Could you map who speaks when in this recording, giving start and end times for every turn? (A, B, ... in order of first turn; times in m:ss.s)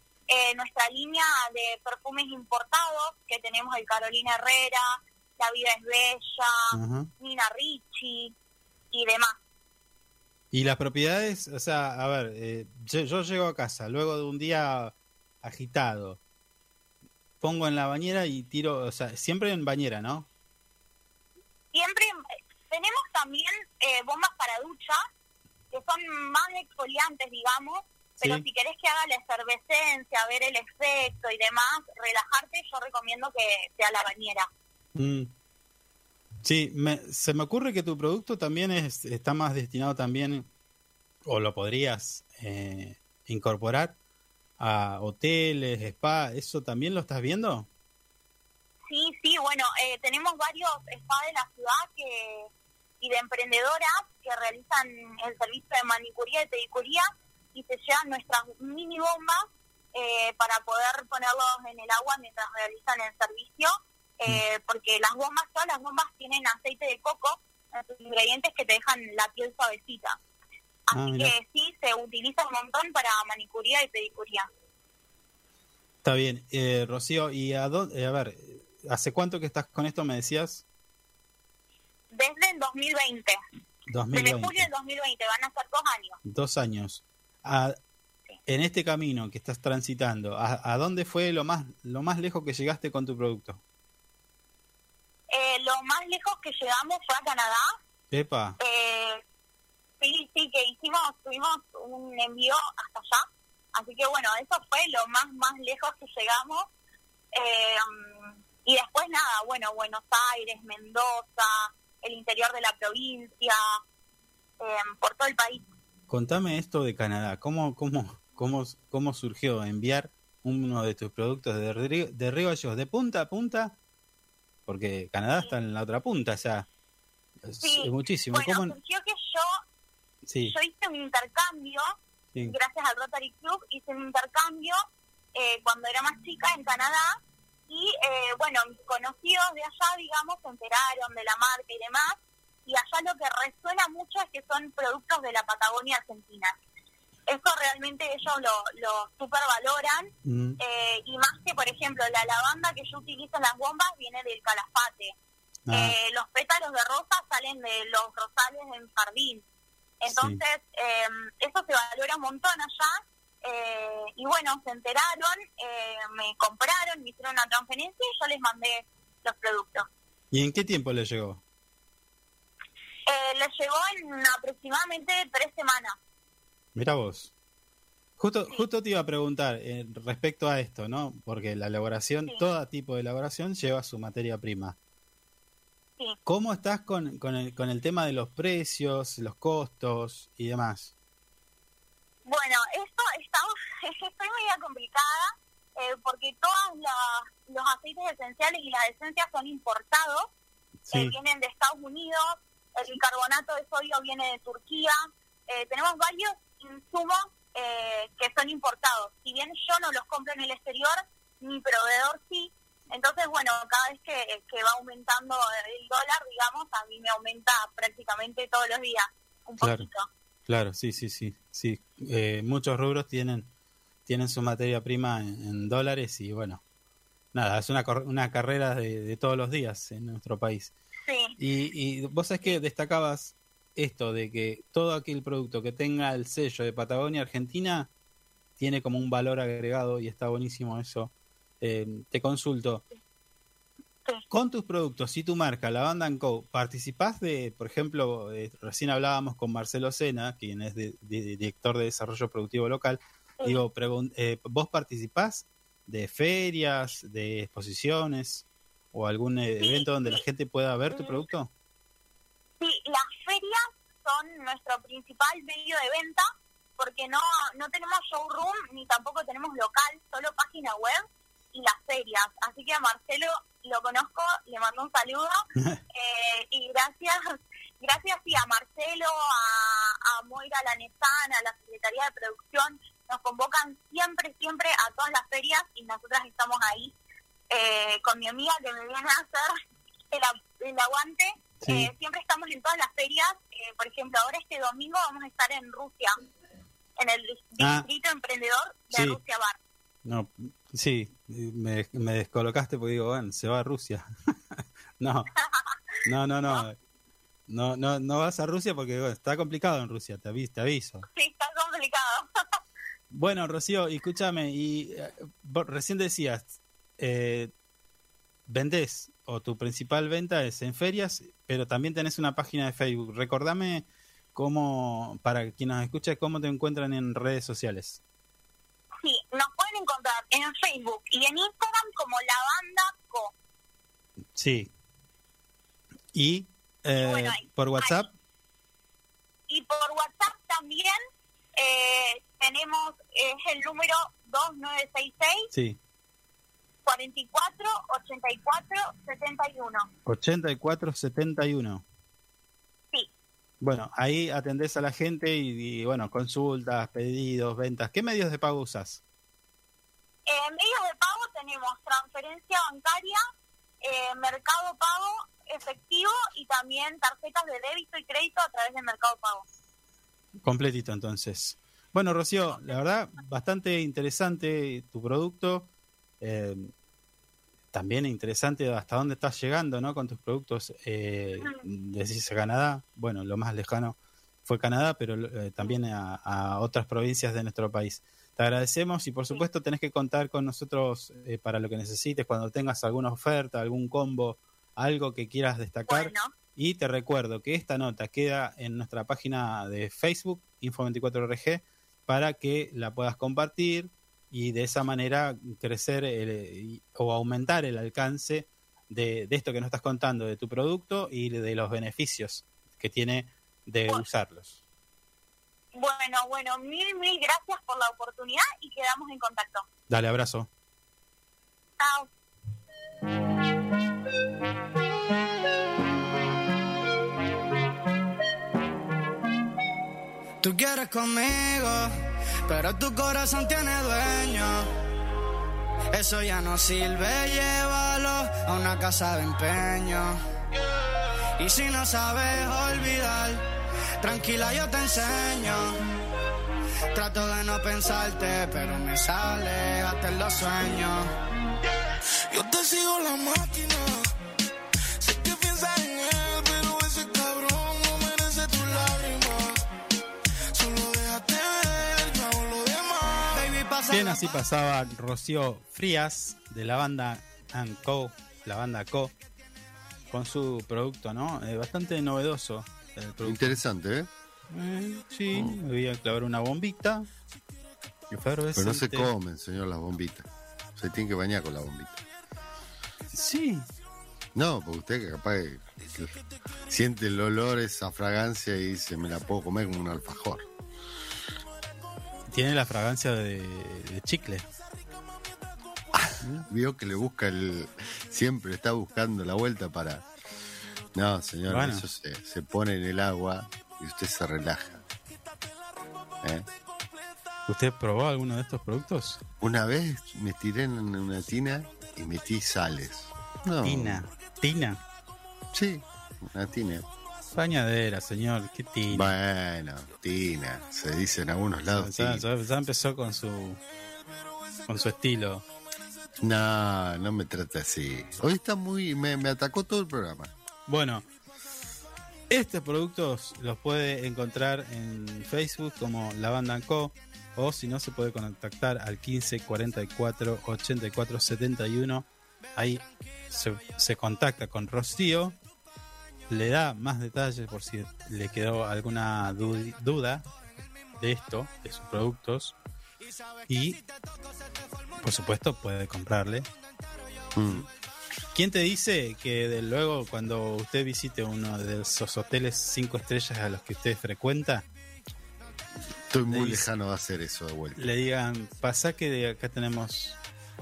0:00.3-0:04.8 A
0:05.4-0:08.3 A
0:06.7-0:07.1 B
0:08.9-0:09.4 A
0:10.5-0:16.2 B
0:17.4-0:20.3 B
0:21.7-0:22.1 A
0:22.7-0:25.0 A
0:25.7-0:34.5 A
0:35.0-0:35.3 B
0:36.4-0:40.5 B
0:41.2-0:43.9 B
0:44.6-0:47.7 B
0:48.9-0:52.5 A
0:53.0-1:10.2 A
1:10.9-1:14.5 A
1:10.9-1:11.3 B
1:16.0-1:20.6 B
1:22.1-1:23.4 A
1:23.9-1:24.7 B
1:24.1-1:26.2 A
1:26.2-1:27.8 B
1:28.5-1:33.6 B
1:35.3-1:37.7 A
1:38.1-1:38.6 B
1:38.6-1:39.2 A
1:40.0-1:46.7 A
1:47.3-1:53.6 A
1:54.6-1:55.6 A
1:56.1-2:03.7 B
2:04.7-2:06.7 B
2:07.4-2:08.8 B
2:07.6-2:09.4 A
2:10.3-2:10.5 B
2:10.4-2:11.8 A
2:12.4-2:14.8 A
2:15.3-2:26.6 A
2:27.3-2:35.2 A
2:30.2-2:30.6 B
2:35.7-2:36.0 B
2:35.7-2:39.4 A
2:40.0-2:49.9 A
2:40.1-2:40.4 B
2:50.3-2:51.4 B
2:53.1-2:56.0 A
2:56.7-2:57.3 B
2:58.2-3:04.8 B
3:06.2-3:10.9 B
3:12.2-3:20.3 A
3:20.8-3:21.1 B
3:20.9-3:24.9 A
3:25.5-3:40.1 A
3:39.6-3:39.9 B
3:40.5-3:43.5 B
3:44.1-3:46.6 B
3:47.3-3:50.7 B
3:51.1-3:51.3 A
3:51.4-3:57.9 B
3:58.6-4:02.8 B
4:04.3-4:21.5 B
4:19.6-4:20.2 A
4:21.0-4:21.2 A
4:22.6-4:26.2 A
4:26.8-4:35.4 A
4:35.9-4:46.9 A
4:47.5-4:49.5 A
4:50.1-4:56.1 A
4:51.6-4:51.9 B
4:57.0-4:59.6 A
4:57.6-4:57.9 B
4:58.9-4:59.2 B
5:00.0-5:04.1 B
5:05.0-5:05.3 B
5:06.0-5:06.8 B
5:07.5-5:11.0 B
5:11.1-5:12.3 A
5:13.1-5:17.5 B
5:18.5-5:28.0 B
5:29.0-5:33.3 A
5:34.4-5:34.7 B
5:36.1-5:38.1 B
5:37.0-5:38.0 A
5:39.5-5:41.0 A
5:41.6-5:45.5 A
5:45.5-5:45.8 B
5:46.8-5:49.9 A
5:50.0-5:51.8 B
5:53.6-5:59.0 B
6:00.2-6:03.2 A
6:03.8-6:09.4 A
6:10.4-6:15.7 B
6:16.2-6:16.7 B
6:17.7-6:54.6 B
6:35.9-6:36.3 A
6:55.7-6:59.7 A
6:59.9-7:00.5 B
7:01.8-7:02.1 A
7:10.4-7:11.9 C
7:12.5-7:14.7 C
7:15.9-7:20.2 C
7:21.4-7:23.4 C
7:24.0-7:25.8 C
7:26.9-7:31.1 C
7:32.3-7:34.1 D
7:35.0-7:39.6 D
7:40.5-7:43.4 D
7:43.3-7:44.2 C
7:43.9-7:49.1 B
7:50.1-7:53.6 B
7:53.2-7:54.1 E
7:54.5-7:57.1 B
7:58.1-7:59.1 B
7:58.6-8:02.0 E
8:03.1-8:03.7 B
8:04.3-8:06.2 E
8:06.7-8:10.5 E
8:12.3-8:14.4 B
8:16.0-8:20.0 E
8:20.9-8:24.8 E
8:21.5-8:21.9 B
8:26.2-8:26.5 E
8:27.5-8:29.2 B
8:29.4-8:34.0 E
8:33.6-8:34.8 B
8:35.5-8:36.8 E
8:37.3-8:39.1 B
8:38.9-8:42.2 E
8:41.7-8:43.6 B
8:44.7-8:45.4 B
8:46.2-8:50.3 E
8:50.7-8:51.0 B
8:52.3-9:05.4 B
9:06.3-9:10.2 B
9:11.0-9:12.5 B
9:13.5-9:13.8 B
9:14.9-9:16.5 B
9:17.3-9:17.6 E
9:18.3-9:24.6 B
9:26.1-9:27.8 E
9:26.3-9:26.7 B
9:27.8-9:30.2 B